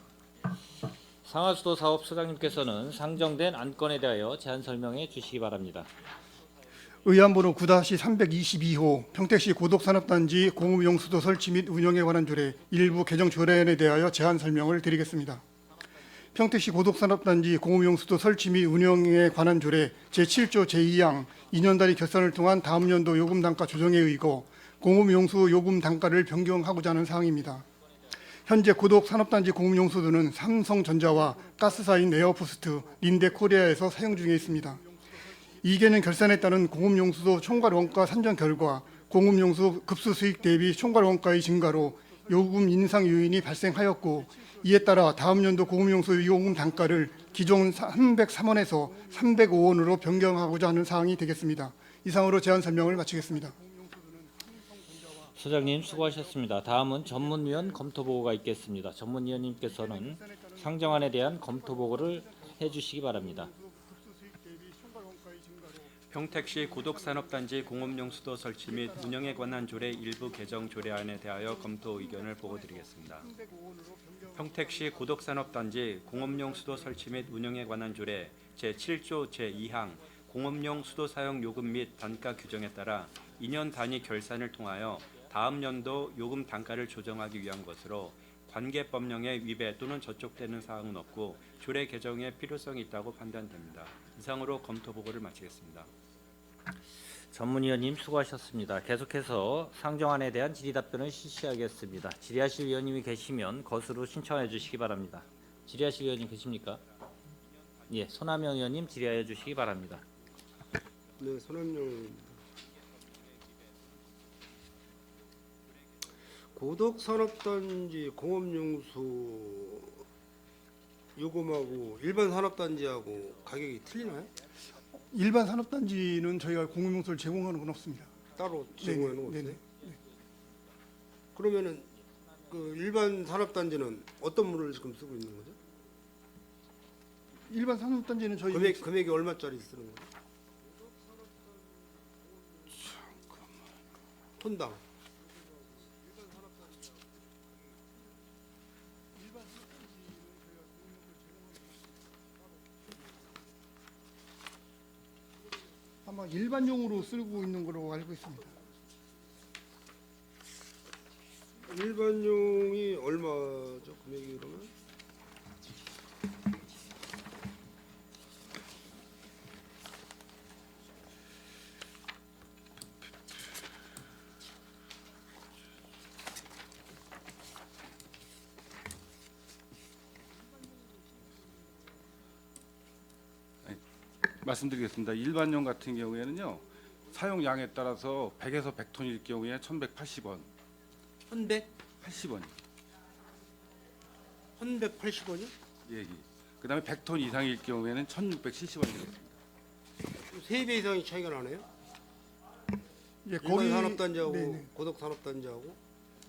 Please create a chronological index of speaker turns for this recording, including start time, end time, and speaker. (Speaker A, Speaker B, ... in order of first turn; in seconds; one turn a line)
Speaker A: 1.2-5.9
Speaker B: 7.0-15.4
Speaker B: 16.3-27.6
Speaker B: 28.4-55.3
Speaker A: 55.3-63.5
Speaker B: 56.0-56.3
Speaker B: 57.0-57.8
Speaker B: 59.6-65.9
Speaker C: 66.1-73.3
Speaker B: 66.5-67.8
Speaker B: 68.7-70.7
Speaker B: 71.6-75.0
Speaker C: 74.3-95.9
Speaker A: 97.3-106.8
Speaker A: 107.9-110.0
Speaker D: 111.2-112.3
Speaker D: 116.5-120.0
Speaker D: 121.2-124.3
Speaker B: 125.1-128.1
Speaker D: 128.3-129.6
Speaker B: 128.8-130.0
Speaker D: 131.3-131.9
Speaker D: 132.5-135.5
Speaker B: 137.5-138.9
Speaker D: 138.5-140.1
Speaker D: 144.4-144.8
Speaker B: 156.0-158.5
Speaker D: 161.7-164.7
Speaker E: 184.4-190.5
Speaker E: 191.3-192.5
Speaker D: 194.6-195.5
Speaker E: 195.9-199.3
Speaker D: 200.1-201.7
Speaker B: 203.2-204.7
Speaker D: 203.4-205.8